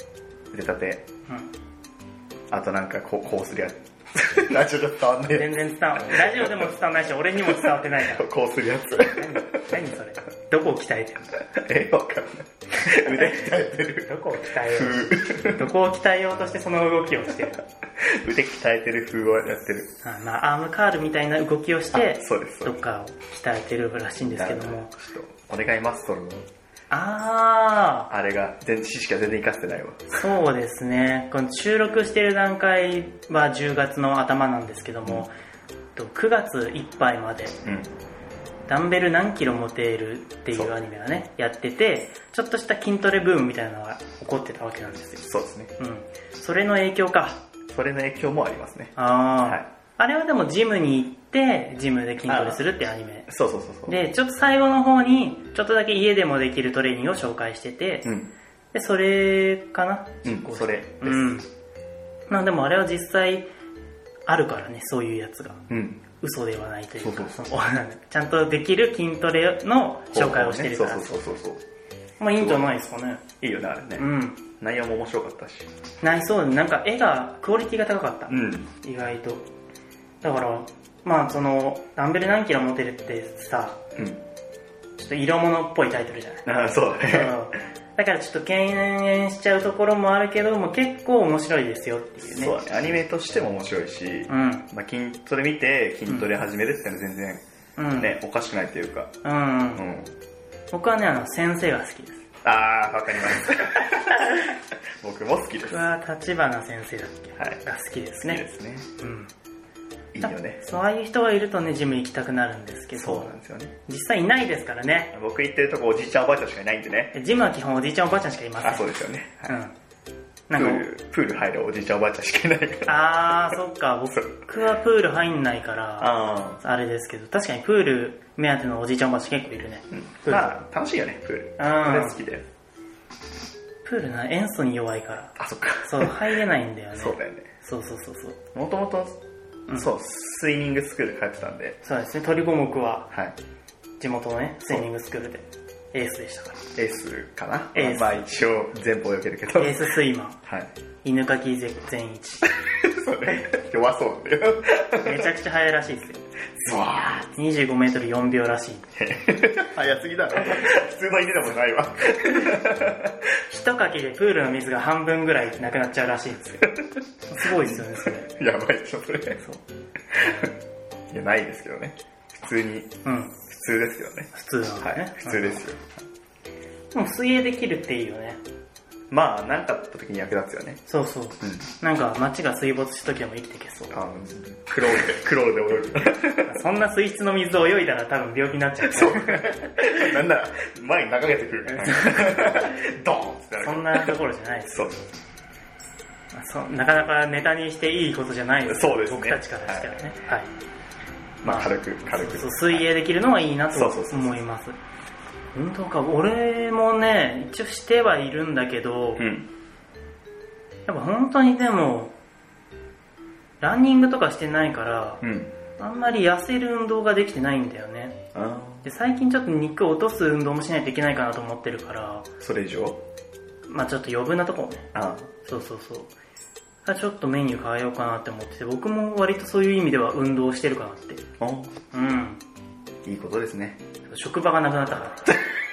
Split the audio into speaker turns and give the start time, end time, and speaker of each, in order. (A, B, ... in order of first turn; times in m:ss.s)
0:00.5-0:01.1 A
0:02.5-0:06.7 A
0:05.3-0:08.3 B
0:07.5-0:09.5 A
0:09.1-0:11.3 B
0:11.5-0:14.1 A
0:12.8-0:17.6 B
0:14.7-0:15.7 A
0:18.0-0:19.9 A
0:20.0-0:25.0 B
0:21.9-0:22.8 A
0:24.2-0:26.5 A
0:26.9-0:28.1 B
0:28.1-0:30.2 A
0:30.1-0:35.3 B
0:36.0-0:37.6 B
0:37.6-0:37.9 A
0:38.7-0:45.2 B
0:45.2-0:45.7 A
0:45.8-0:47.4 B
0:47.7-0:49.7 A
0:49.0-0:53.3 B
0:52.3-0:52.6 A
0:53.3-0:54.0 A
0:53.9-0:58.1 B
0:58.0-0:58.3 A
0:58.7-1:01.5 B
1:00.2-1:01.4 A
1:02.3-1:03.5 B
1:04.3-1:05.6 B
1:05.7-1:06.0 A
1:06.2-1:11.2 B
1:07.0-1:07.5 A
1:10.1-1:11.6 A
1:12.2-1:13.2 B
1:12.4-1:12.8 A
1:13.4-1:15.7 A
1:14.0-1:14.4 B
1:16.0-1:19.5 B
1:18.3-1:18.7 A
1:20.2-1:23.8 B
1:24.0-1:24.2 A
1:25.0-1:32.6 B
1:26.4-1:27.4 A
1:32.2-1:37.4 A
1:34.3-1:34.7 B
1:37.8-1:38.2 B
1:38.0-1:39.1 A
1:39.2-1:39.8 B
1:39.8-1:40.1 A
1:40.7-1:42.2 B
1:42.4-1:44.4 A
1:45.0-1:45.9 A
1:45.7-1:48.4 B
1:48.2-1:48.9 A
1:49.0-1:49.3 B
1:50.1-1:50.6 A
1:50.2-1:55.1 B
1:53.0-1:53.7 A
1:55.1-1:57.2 A
1:57.1-1:58.9 B
1:58.6-1:59.6 A
1:59.5-1:59.7 B
2:00.5-2:00.9 B
2:00.6-2:03.2 A
2:02.9-2:10.6 B
2:06.0-2:06.6 A
2:10.1-2:12.5 A
2:11.6-2:12.2 B
2:13.8-2:18.4 B
2:15.4-2:16.2 A
2:17.0-2:17.5 A
2:18.6-2:19.2 A
2:19.7-2:21.8 A
2:21.8-2:23.1 B
2:23.1-2:23.4 A
2:24.0-2:26.6 B
2:26.8-2:29.9 A
2:27.7-2:28.3 B
2:29.6-2:30.4 B
2:31.0-2:32.5 B
2:32.6-2:35.3 A
2:35.0-2:36.2 B
2:36.6-2:37.3 A
2:37.3-2:38.9 B
2:39.0-2:43.2 A
2:43.5-2:46.7 B
2:46.8-2:49.4 A
2:47.2-2:48.3 B
2:50.1-2:50.5 A
2:51.1-2:55.9 A
2:53.0-2:53.4 B
2:54.3-2:55.7 B
2:56.9-2:58.4 B
2:59.1-3:00.8 A
3:00.9-3:03.9 B
3:01.4-3:01.7 A
3:03.9-3:06.6 A
3:06.4-3:09.9 B
3:08.8-3:14.2 A
3:11.7-3:12.7 B
3:13.6-3:14.8 B
3:14.7-3:15.0 A
3:16.3-3:20.5 B
3:18.6-3:20.0 A
3:21.4-3:22.9 A
3:21.4-3:24.8 B
3:23.7-3:24.4 A
3:25.5-3:29.2 B
3:29.2-3:29.5 A
3:30.9-3:32.1 B
3:33.6-3:35.2 B
3:35.2-3:35.5 A
3:35.8-3:38.2 B
3:38.3-3:38.9 A
3:38.8-3:42.3 B
3:42.4-3:43.0 A
3:43.7-3:44.9 B
3:44.9-3:45.3 A
3:45.4-3:46.1 B
3:46.8-3:51.2 B
3:51.4-3:51.8 A
3:51.9-3:52.4 B
3:53.0-3:53.8 A
3:54.1-3:55.4 B